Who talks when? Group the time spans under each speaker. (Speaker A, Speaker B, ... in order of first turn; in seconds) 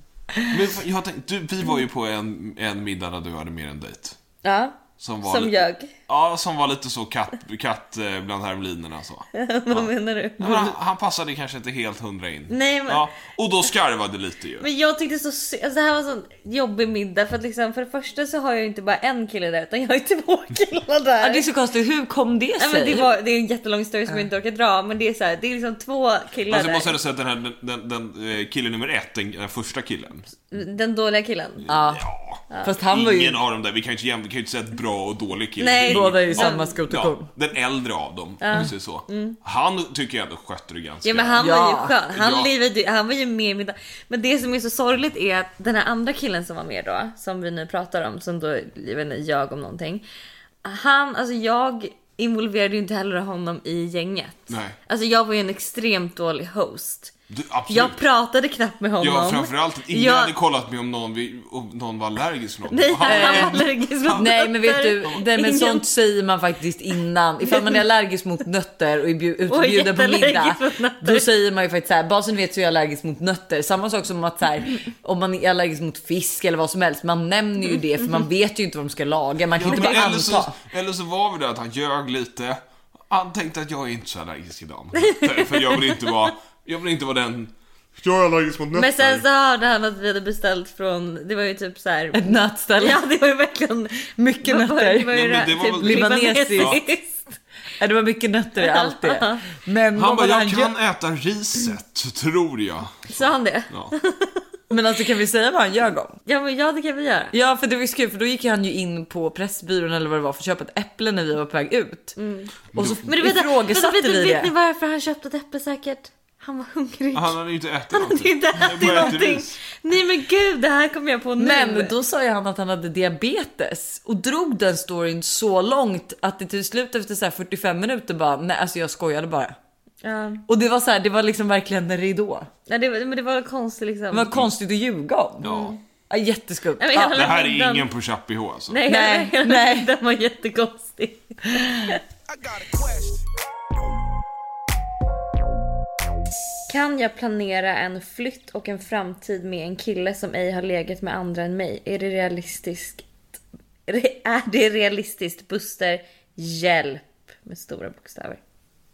Speaker A: 0.5-4.2, 5.0-14.7, 26.5-30.3, 31.6-41.5, 42.1-42.5, 54.5-54.8, 57.3-58.0, 59.0-64.3, 79.5-89.2, 95.1-96.8, 99.9-103.9, 112.7-113.0, 117.1-119.6, 135.4-135.8, 137.1-138.8
Speaker B: 4.4-5.9, 9.3-10.8, 12.5-13.1, 14.6-21.4, 22.6-26.9, 30.5-31.7, 35.6-36.8, 38.4-39.4, 41.0-50.0, 50.6-57.1, 57.7-60.3, 62.7-65.8, 67.4-67.8, 69.5-71.3, 85.0-86.1, 88.7-97.2, 98.6-99.4, 103.1-104.4, 106.2-107.3, 112.2-117.4, 117.9-121.9, 130.0-130.4, 132.7-134.4, 135.4-135.8, 136.8-137.9, 138.7-142.0, 146.7-158.4
Speaker C: 21.2-23.1, 31.7-32.0, 32.6-33.4, 35.9-37.3, 41.4-41.9, 63.0-80.6, 92.1-93.0, 94.2-96.8, 97.8-100.7, 104.7-106.2, 107.3-112.2, 112.7-114.5, 118.8-119.1, 121.4-129.6, 130.5-132.5, 134.1-135.5, 136.1-137.2, 138.9-139.9